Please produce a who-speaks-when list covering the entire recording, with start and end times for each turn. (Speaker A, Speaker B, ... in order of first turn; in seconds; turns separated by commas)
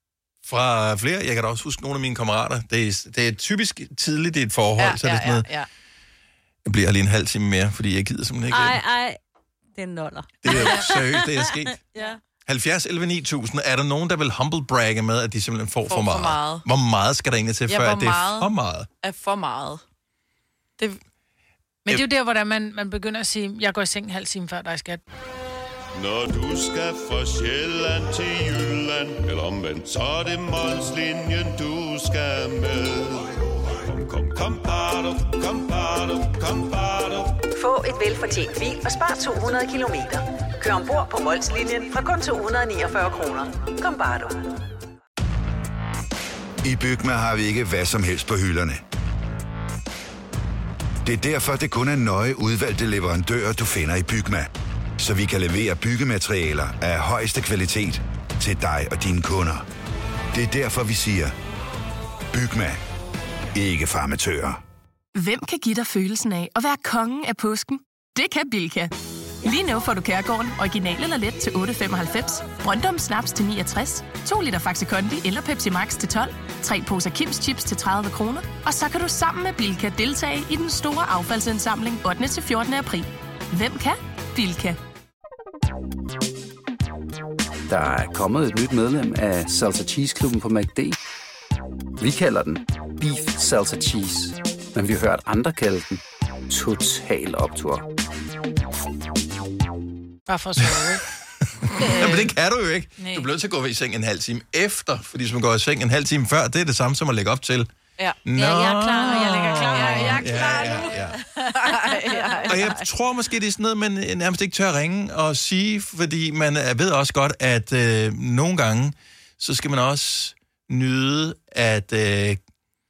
Speaker A: 0.4-5.5, Speaker B: 4.8-5.7, Speaker A: 6.6-8.8, Speaker C: 8.5-9.2, Speaker C: 9.7-12.2, Speaker A: 10.4-11.8, Speaker A: 12.4-18.9, Speaker B: 15.9-16.6, Speaker B: 17.7-18.5, Speaker B: 19.0-19.8, Speaker D: 21.8-25.0, Speaker E: 25.9-37.4, Speaker F: 37.5-44.5, Speaker G: 46.6-48.8, Speaker G: 51.0-54.5, Speaker G: 55.0-59.6, Speaker G: 60.3-61.3, Speaker G: 62.3-62.8, Speaker G: 63.5-64.6, Speaker H: 65.1-84.8, Speaker I: 87.7-91.0, Speaker I: 92.0-97.8, Speaker D: 100.3-101.0, Speaker A: 100.6-107.7, Speaker B: 101.8-102.3, Speaker D: 103.0-103.3, Speaker A: 108.2-111.2, Speaker C: 108.3-110.2, Speaker D: 108.9-110.9, Speaker B: 109.7-112.8, Speaker A: 112.5-122.4